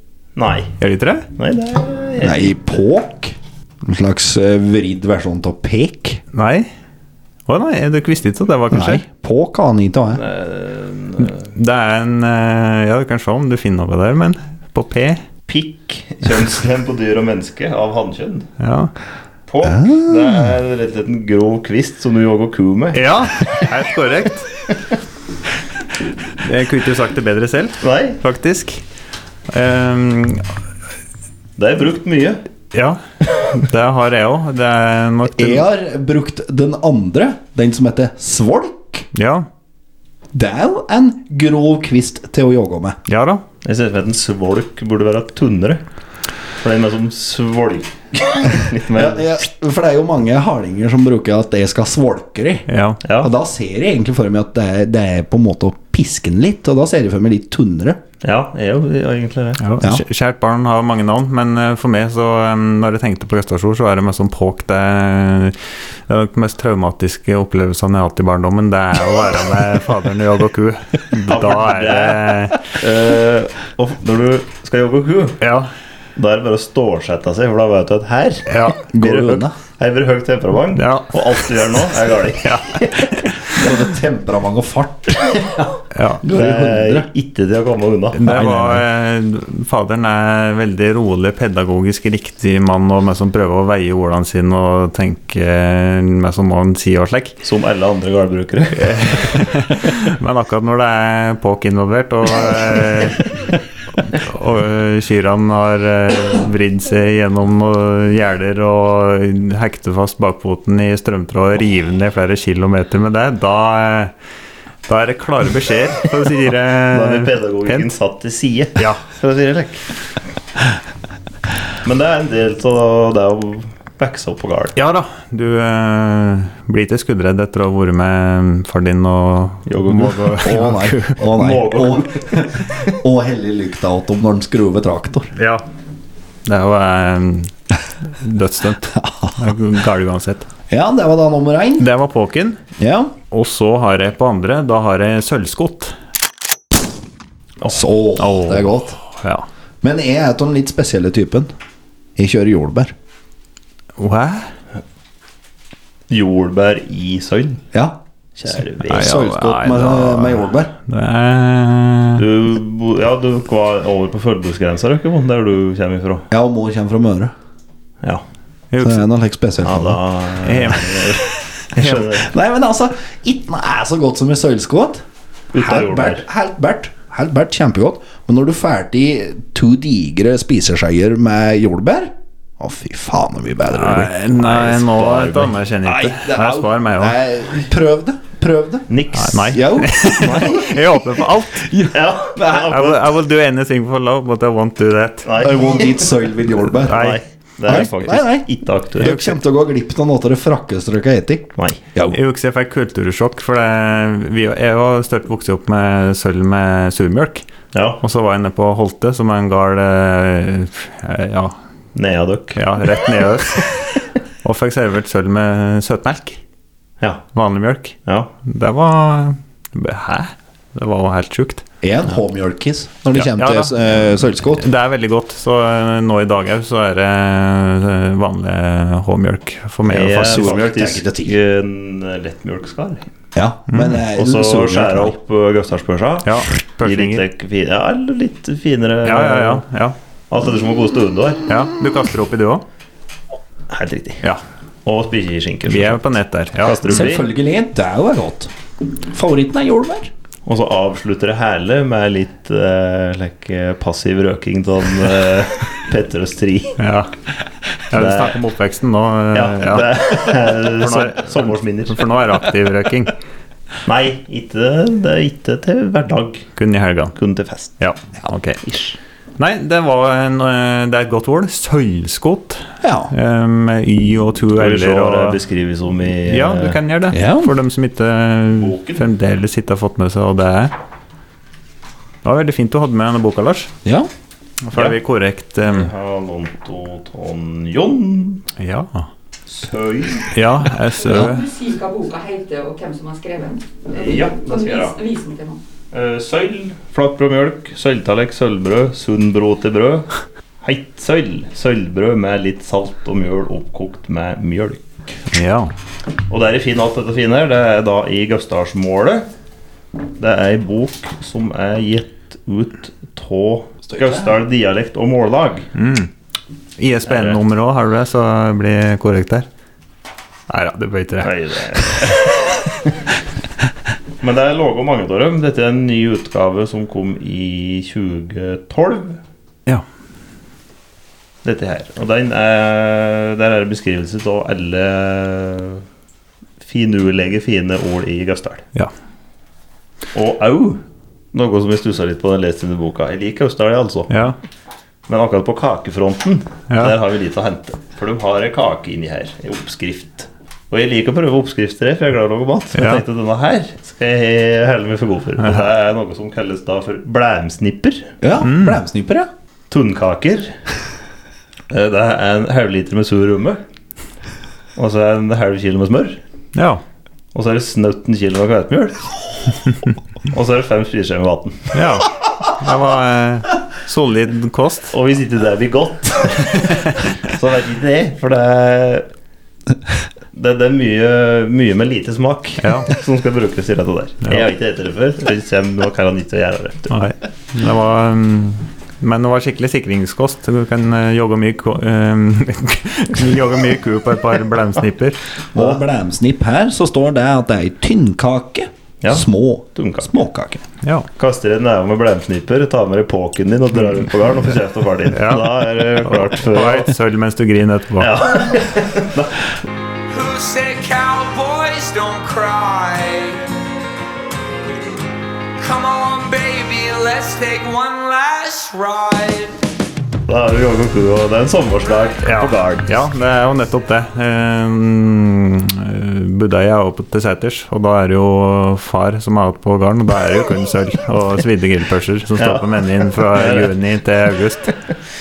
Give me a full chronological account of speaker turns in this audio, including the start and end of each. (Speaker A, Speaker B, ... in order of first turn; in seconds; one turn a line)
Speaker A: 0.4-0.8
Speaker B: 0.8-1.3
Speaker A: 1.4-2.5
Speaker C: 2.2-6.2
Speaker B: 6.3-6.7
Speaker B: 7.5-9.0
Speaker C: 8.7-10.2
Speaker A: 10.1-11.4
Speaker B: 11.2-15.2
Speaker A: 15.5-18.5
Speaker B: 18.6-18.9
Speaker A: 19.5-23.1
Speaker C: 19.6-20.5
Speaker B: 22.9-24.5
Speaker B: 26.4-28.8
Speaker A: 27.8-28.2
Speaker B: 29.5-30.5
Speaker A: 31.6-32.4
Speaker B: 32.7-33.0
Speaker B: 33.5-35.6
Speaker C: 35.3-39.1
Speaker B: 39.1-39.5
Speaker C: 40.3-43.0
Speaker B: 43.1-43.4
Speaker A: 43.6-45.8
Speaker A: 46.6-49.3
Speaker C: 48.9-52.7
Speaker B: 52.7-53.0
Speaker A: 53.0-53.3
Speaker C: 53.2-58.0
Speaker A: 58.2-59.6
Speaker B: 59.6-72.6
Speaker A: 71.3-75.4
Speaker B: 75.4-75.7
Speaker A: 76.2-83.2
Speaker B: 78.5-78.8
Speaker C: 78.9-79.5
Speaker B: 80.8-81.2
Speaker B: 82.4-83.3
Speaker C: 83.5-85.5
Speaker A: 85.3-85.7
Speaker B: 85.9-86.2
Speaker C: 86.2-87.1
Speaker A: 86.3-88.6
Speaker B: 88.2-97.4
Speaker C: 88.5-88.7
Speaker A: 97.4-99.3
Speaker B: 98.8-103.3
Speaker B: 104.1-114.1
Speaker B: 114.9-117.9
Speaker A: 116.9-119.8
Speaker A: 121.8-124.8
Speaker B: 124.8-131.2
Speaker A: 129.7-130.5
Speaker C: 130.4-135.3
Speaker A: 131.3-132.9
Speaker B: 135.3-135.6
Speaker B: 136.4-137.5
Speaker B: 138.0-140.5
Speaker C: 138.9-139.4
Speaker C: 140.7-141.9
Speaker B: 141.8-142.6
Speaker C: 142.8-143.1
Speaker B: 143.3-145.9
Speaker C: 147.7-149.0
Speaker B: 148.2-149.5
Speaker C: 149.8-151.5
Speaker C: 152.2-152.9
Speaker B: 154.0-154.5
Speaker A: 156.1-157.6
Speaker C: 157.7-158.0
Speaker A: 158.4-159.1
Speaker B: 158.8-162.2
Speaker C: 158.8-160.7
Speaker A: 162.2-166.3
Speaker C: 166.3-167.3
Speaker B: 168.7-169.1
Speaker C: 168.8-170.0
Speaker A: 169.6-172.3
Speaker B: 170.4-172.0
Speaker C: 172.0-175.0
Speaker A: 175.5-176.2
Speaker C: 175.6-184.6
Speaker B: 183.7-187.2
Speaker A: 184.5-185.5
Speaker C: 185.8-188.9
Speaker A: 188.9-189.7
Speaker B: 189.2-191.7
Speaker C: 189.4-192.9
Speaker A: 190.2-190.7
Speaker A: 191.9-193.0
Speaker B: 192.6-195.3
Speaker A: 195.2-196.1
Speaker C: 195.4-197.1
Speaker A: 196.8-199.3
Speaker B: 196.9-197.2
Speaker C: 197.7-202.2
Speaker B: 202.1-207.5
Speaker A: 207.7-208.0
Speaker B: 208.0-211.6
Speaker A: 211.9-212.8
Speaker B: 212.6-213.9
Speaker B: 214.4-216.4
Speaker B: 217.3-221.6
Speaker A: 218.1-218.3
Speaker C: 221.8-224.7
Speaker B: 223.1-230.5
Speaker A: 229.9-233.1
Speaker C: 230.2-231.3
Speaker C: 233.3-235.2
Speaker B: 233.7-234.0
Speaker A: 234.1-239.6
Speaker B: 236.2-237.2
Speaker B: 239.1-240.0
Speaker A: 240.3-241.4
Speaker B: 241.5-242.6
Speaker A: 243.7-244.2
Speaker A: 244.8-247.3
Speaker B: 245.7-247.0
Speaker C: 246.8-248.5
Speaker C: 249.1-250.1
Speaker A: 250.5-256.8
Speaker B: 256.8-257.1
Speaker B: 257.9-263.1
Speaker A: 257.9-258.4
Speaker A: 259.3-262.1
Speaker A: 263.9-266.5
Speaker B: 266.6-267.1
Speaker A: 267.1-267.7
Speaker B: 267.8-268.6
Speaker A: 268.6-269.0
Speaker B: 269.4-275.4
Speaker C: 272.8-273.1
Speaker A: 274.6-276.8
Speaker B: 276.3-280.7
Speaker C: 277.1-277.5
Speaker A: 278.6-279.0
Speaker B: 282.2-283.7
Speaker B: 284.7-285.9
Speaker A: 285.7-288.5
Speaker B: 288.6-289.1
Speaker A: 289.5-290.3
Speaker B: 290.3-291.4
Speaker D: 291.0-295.6
Speaker A: 293.9-295.0
Speaker A: 295.9-300.1
Speaker A: 300.6-305.2
Speaker B: 305.3-305.7
Speaker A: 306.3-309.3
Speaker A: 310.2-315.7
Speaker C: 313.9-314.3
Speaker B: 315.8-316.1
Speaker B: 316.8-319.5
Speaker A: 317.1-317.4
Speaker B: 320.5-321.3
Speaker A: 321.2-322.6
Speaker A: 324.2-329.2
Speaker A: 331.4-335.8
Speaker A: 336.6-338.7
Speaker A: 340.1-340.8
Speaker A: 341.3-344.1
Speaker B: 344.1-344.4
Speaker A: 345.1-358.1
Speaker B: 346.7-346.9
Speaker B: 352.8-353.0
Speaker C: 358.2-359.3
Speaker B: 358.4-358.8
Speaker A: 359.7-360.5
Speaker A: 361.7-363.6
Speaker A: 364.8-366.2
Speaker B: 366.6-366.8
Speaker A: 367.3-369.1
Speaker A: 370.3-371.7
Speaker B: 371.7-374.9
Speaker A: 374.9-379.1
Speaker A: 380.3-386.9
Speaker B: 382.6-382.9
Speaker B: 386.9-395.2
Speaker C: 395.5-400.6
Speaker A: 399.0-400.1
Speaker A: 401.2-406.9
Speaker B: 405.1-408.2
Speaker A: 408.0-409.4
Speaker E: 410.1-413.5
Speaker E: 415.6-419.5
Speaker A: 420.3-422.9
Speaker B: 422.2-434.7
Speaker A: 432.4-433.7